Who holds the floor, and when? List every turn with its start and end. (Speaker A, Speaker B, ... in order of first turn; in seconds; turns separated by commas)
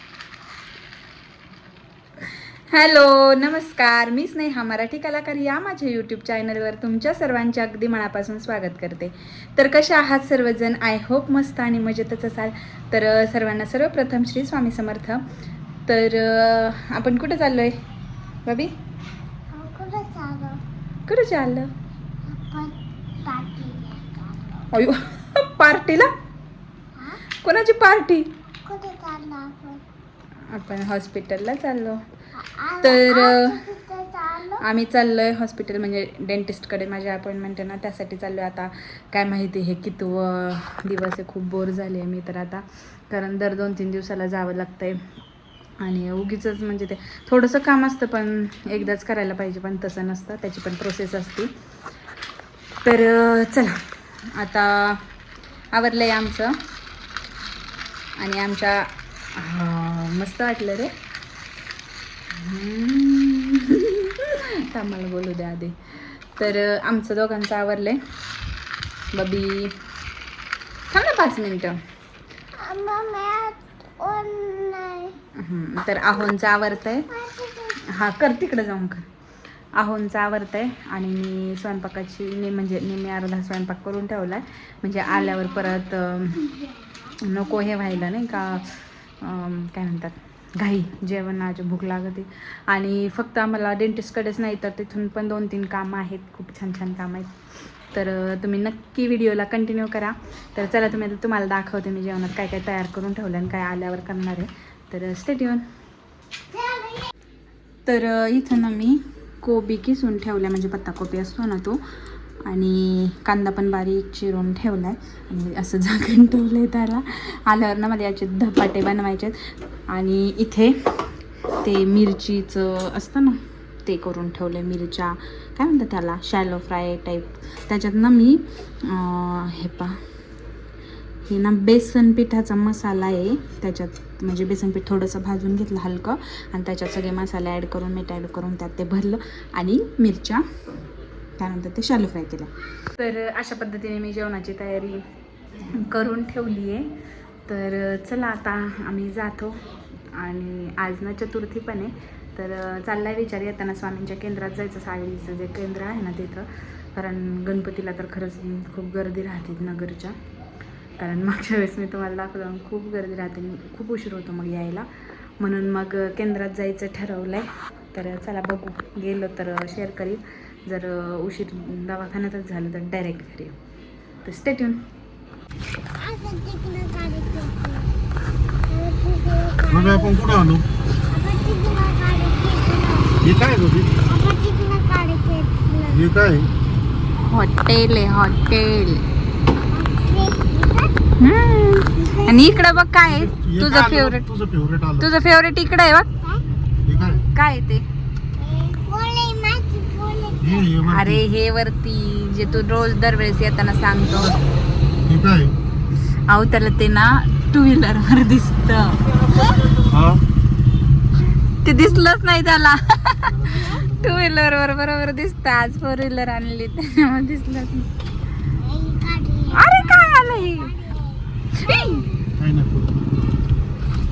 Speaker A: 2.7-15.2, Speaker A: 15.9-17.7, Speaker A: 18.4-18.7, Speaker B: 19.5-20.6, Speaker A: 21.1-21.7, Speaker B: 22.2-24.6, Speaker A: 24.7-26.1, Speaker B: 26.9-27.2, Speaker A: 27.4-28.3, Speaker B: 28.6-29.8, Speaker A: 30.5-32.0, Speaker B: 32.4-34.6, Speaker A: 32.8-33.6, Speaker A: 34.6-45.0, Speaker A: 45.8-51.5, Speaker A: 52.8-55.0, Speaker A: 55.7-56.5, Speaker A: 58.2-60.9, Speaker A: 62.3-68.0, Speaker A: 69.1-69.7, Speaker A: 70.9-71.8, Speaker B: 72.5-75.2, Speaker A: 75.4-77.1, Speaker B: 77.1-77.8, Speaker A: 77.8-79.0, Speaker A: 79.8-86.5, Speaker A: 87.2-97.3, Speaker A: 97.9-105.6, Speaker B: 106.5-107.1, Speaker A: 107.8-111.8, Speaker A: 112.4-121.1, Speaker A: 121.6-130.0, Speaker A: 131.2-140.4, Speaker A: 141.4-145.0, Speaker A: 145.7-146.9, Speaker A: 147.5-160.1, Speaker A: 161.0-164.9, Speaker A: 165.4-173.5, Speaker A: 174.2-174.8, Speaker B: 175.9-177.9, Speaker B: 178.7-180.3, Speaker C: 179.7-180.6, Speaker B: 181.1-183.2, Speaker C: 183.2-183.9, Speaker B: 184.1-186.0, Speaker C: 185.9-186.5, Speaker A: 187.2-189.0, Speaker B: 189.7-191.0, Speaker A: 191.2-194.3, Speaker B: 191.9-192.8, Speaker C: 193.1-195.1, Speaker A: 195.0-196.1, Speaker C: 196.9-197.2, Speaker A: 197.3-197.8, Speaker B: 198.4-200.7, Speaker C: 200.4-201.2, Speaker A: 200.9-204.4, Speaker B: 202.4-202.9, Speaker C: 205.1-205.5, Speaker A: 206.3-209.0, Speaker B: 209.2-209.8, Speaker C: 209.8-210.2, Speaker A: 211.6-217.9, Speaker C: 213.3-214.2, Speaker B: 218.5-222.2, Speaker A: 219.5-220.7, Speaker A: 221.6-222.0, Speaker C: 222.4-222.9